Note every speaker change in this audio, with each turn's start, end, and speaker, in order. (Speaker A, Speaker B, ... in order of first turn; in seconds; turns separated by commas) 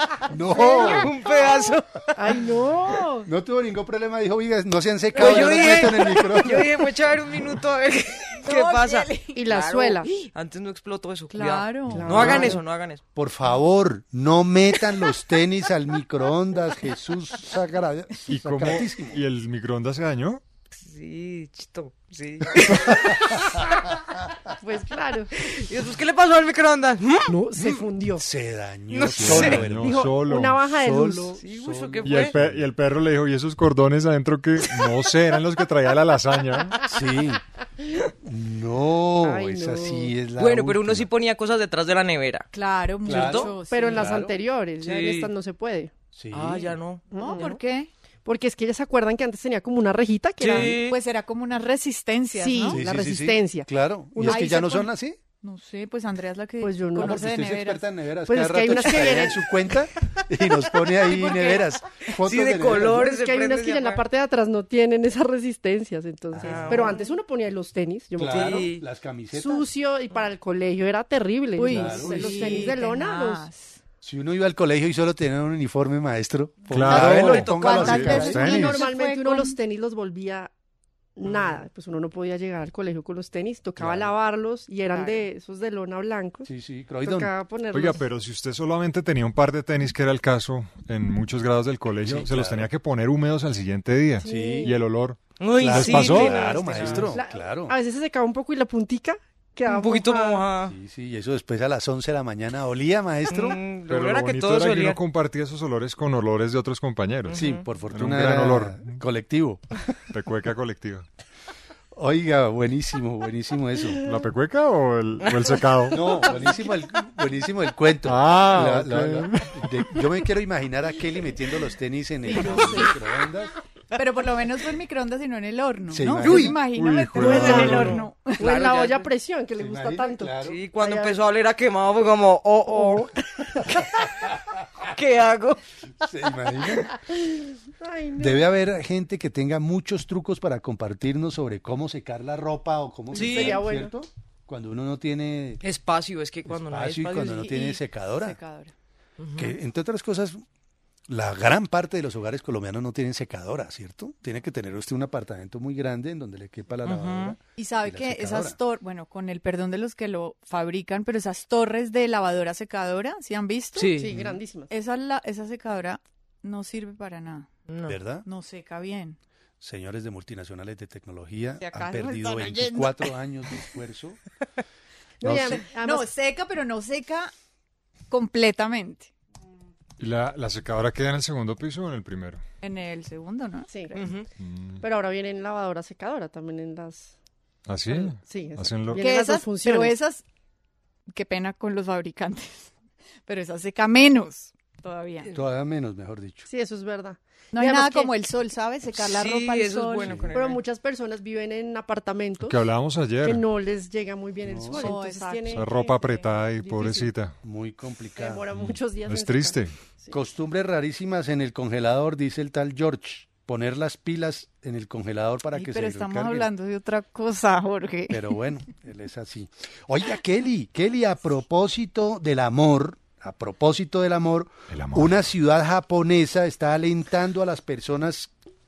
Speaker A: 0.3-1.1, Speaker B: 0.7-2.1, Speaker C: 2.1-3.3, Speaker A: 3.2-6.7, Speaker B: 5.1-13.0, Speaker C: 5.2-5.6, Speaker D: 8.4-9.5, Speaker C: 9.3-10.1, Speaker D: 11.3-12.5, Speaker C: 11.9-12.6, Speaker A: 12.2-12.5, Speaker A: 13.1-19.2, Speaker E: 18.3-20.4, Speaker B: 20.7-23.5, Speaker C: 24.6-25.3, Speaker B: 25.4-27.3, Speaker C: 27.3-28.2, Speaker A: 28.2-32.6, Speaker B: 28.9-29.6, Speaker E: 29.2-30.6, Speaker C: 29.4-31.4, Speaker B: 31.4-32.3, Speaker E: 32.0-36.8, Speaker A: 36.9-37.4, Speaker A: 38.2-41.1, Speaker C: 39.2-40.1, Speaker B: 40.4-42.5, Speaker D: 42.5-44.1, Speaker A: 43.0-44.4, Speaker B: 43.0-43.5, Speaker C: 43.7-45.9, Speaker B: 44.8-45.3, Speaker A: 46.1-46.8, Speaker B: 46.3-47.4, Speaker C: 47.1-47.5, Speaker D: 47.1-47.9, Speaker C: 48.2-50.8, Speaker B: 50.4-51.0, Speaker D: 50.5-52.8, Speaker C: 52.3-54.8, Speaker A: 52.7-55.2, Speaker D: 54.3-54.9, Speaker D: 55.4-57.8, Speaker C: 56.6-57.3, Speaker A: 57.0-63.1, Speaker C: 58.3-59.5, Speaker C: 61.0-61.6, Speaker B: 62.2-64.0, Speaker C: 62.7-68.7, Speaker A: 66.3-66.9, Speaker B: 66.4-67.0, Speaker A: 68.2-69.7, Speaker B: 68.3-68.8, Speaker C: 69.3-73.5, Speaker D: 71.6-73.8, Speaker A: 71.7-72.7, Speaker A: 74.0-78.8, Speaker E: 76.7-78.8, Speaker D: 76.9-79.6, Speaker B: 77.0-77.9, Speaker C: 78.2-80.5, Speaker C: 81.2-86.5, Speaker A: 83.8-84.1, Speaker D: 84.9-85.2, Speaker A: 86.5-87.3, Speaker C: 87.0-88.0, Speaker E: 87.7-97.1, Speaker A: 92.0-92.7, Speaker C: 94.2-94.8, Speaker A: 94.2-94.7, Speaker B: 95.4-97.1, Speaker A: 95.6-97.8, Speaker C: 96.3-100.4, Speaker B: 99.7-100.7, Speaker A: 100.6-103.6, Speaker B: 103.3-105.0, Speaker E: 103.9-109.0, Speaker B: 107.3-107.6, Speaker A: 107.3-109.6, Speaker E: 110.1-111.0, Speaker A: 111.9-114.0, Speaker E: 114.0-116.3, Speaker B: 115.2-115.6, Speaker A: 115.9-123.5, Speaker E: 118.0-119.6, Speaker C: 122.3-122.9, Speaker D: 123.9-128.4, Speaker A: 125.9-126.6, Speaker E: 126.3-128.0, Speaker C: 127.2-131.2, Speaker B: 128.4-129.1, Speaker A: 129.6-130.6, Speaker B: 130.4-133.1, Speaker C: 132.7-133.1, Speaker B: 134.9-135.6, Speaker A: 136.0-136.9, Speaker C: 137.8-138.4, Speaker A: 138.2-145.6, Speaker C: 143.1-143.9, Speaker B: 143.1-143.6, Speaker B: 145.6-147.5, Speaker A: 146.5-148.4, Speaker D: 147.2-148.7, Speaker B: 149.2-149.6, Speaker A: 149.3-150.4, Speaker A: 151.1-158.6, Speaker B: 156.8-157.3, Speaker D: 157.6-164.0, Speaker B: 163.8-164.1, Speaker C: 164.0-164.7, Speaker A: 164.1-164.4, Speaker D: 164.7-167.5, Speaker B: 167.7-168.0, Speaker A: 167.9-168.2, Speaker D: 168.2-169.2, Speaker A: 169.6-174.2, Speaker D: 171.6-172.9, Speaker C: 175.2-176.1, Speaker A: 175.2-175.6, Speaker D: 175.4-177.3, Speaker D: 178.1-179.1, Speaker E: 180.0-182.4, Speaker D: 182.6-183.7, Speaker C: 183.7-184.0, Speaker B: 183.9-184.3, Speaker E: 184.4-184.8, Speaker C: 184.8-187.1, Speaker E: 187.7-189.0, Speaker C: 188.2-189.9, Speaker D: 188.9-190.2, Speaker D: 191.1-192.7, Speaker D: 193.3-195.3, Speaker A: 195.3-196.5, Speaker C: 196.5-198.1, Speaker D: 197.5-200.1, Speaker B: 199.0-200.6, Speaker A: 200.0-200.3, Speaker C: 200.3-202.6, Speaker E: 202.4-203.4, Speaker C: 203.2-205.9, Speaker A: 204.4-205.0, Speaker D: 204.7-206.2, Speaker E: 205.5-207.3, Speaker C: 206.6-207.1, Speaker A: 207.4-208.4, Speaker C: 208.2-210.2, Speaker E: 208.6-209.7, Speaker A: 210.1-216.5, Speaker D: 215.5-218.3, Speaker A: 218.1-228.3, Speaker E: 224.7-225.3